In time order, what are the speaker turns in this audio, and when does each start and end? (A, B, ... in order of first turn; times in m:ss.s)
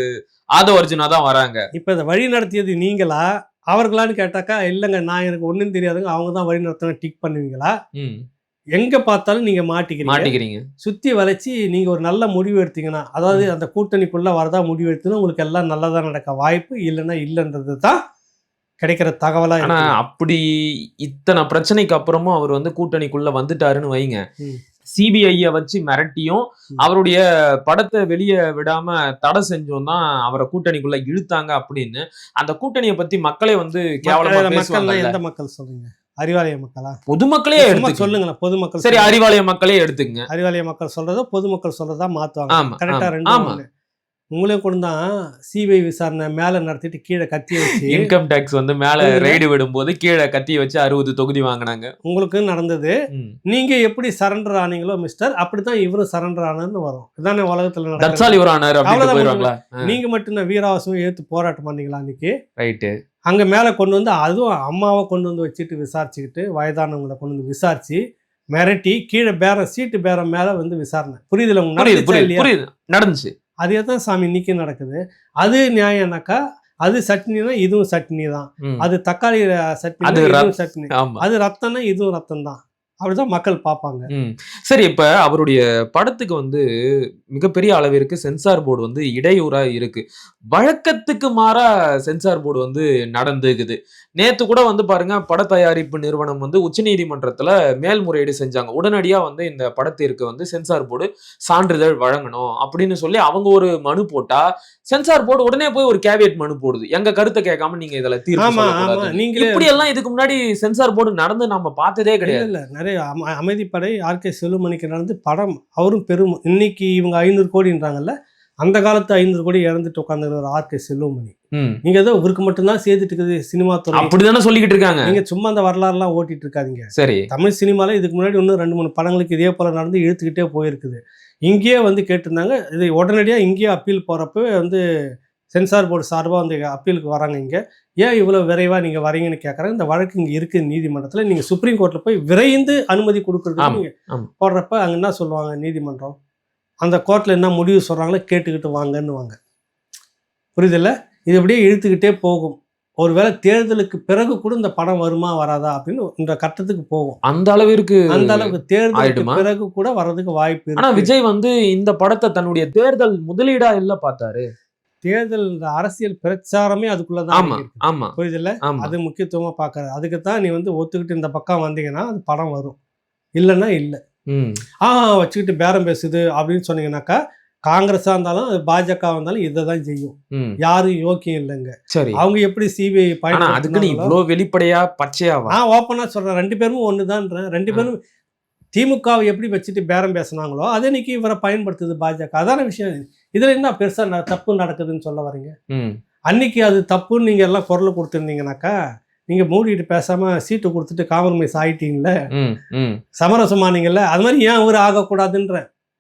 0:00.6-0:01.6 A
0:01.8-0:07.7 B
0:08.0-0:08.2 A
0:08.8-0:10.3 B
0:10.1-0:10.6 A
0:10.8-0:18.0 B
0:18.8-0:20.0 B
0:19.6-0:20.4 A
0:21.0-0:24.2 A
0:25.0-0:35.2 A
0:34.1-0:37.0 B
0:37.1-0:38.1 A
0:37.6-0:39.1 B
0:38.8-0:40.2 A
0:40.3-0:43.6 B
0:42.5-0:43.6 A
0:44.4-0:48.1 B
0:47.9-0:51.9 A
0:49.0-0:49.4 B
0:52.1-0:52.9 B
0:53.5-1:02.4 B
0:58.0-0:59.8 A
1:02.6-1:02.9 A
1:03.3-1:08.0 B
1:08.5-1:12.5 B
1:11.8-1:13.3 A
1:13.6-1:24.1 B
1:20.0-1:21.2 A
1:24.1-1:26.6 A
1:27.4-1:52.5 A
1:48.4-1:49.7 B
1:52.2-2:04.1 B
2:04.0-2:05.1 A
2:05.1-2:14.8 B
2:07.0-2:07.3 A
2:15.5-2:26.2 B
2:23.6-2:24.3 A
2:26.8-2:29.4 B
2:30.6-2:37.2 B
2:37.3-2:39.4 A
2:38.1-2:41.1 B
2:40.8-2:44.4 A
2:45.0-2:52.8 B
2:47.3-2:48.9 A
2:53.4-2:54.0 B
2:54.3-2:54.6 A
2:54.8-2:57.2 B
2:57.7-3:04.2 B
3:01.9-3:02.2 A
3:03.3-3:05.6 A
3:05.5-3:08.0 B
3:08.8-3:15.5 B
3:15.7-3:16.0 A
3:16.3-3:18.7 B
3:19.3-3:22.1 B
3:22.4-3:23.0 A
3:23.2-3:25.7 B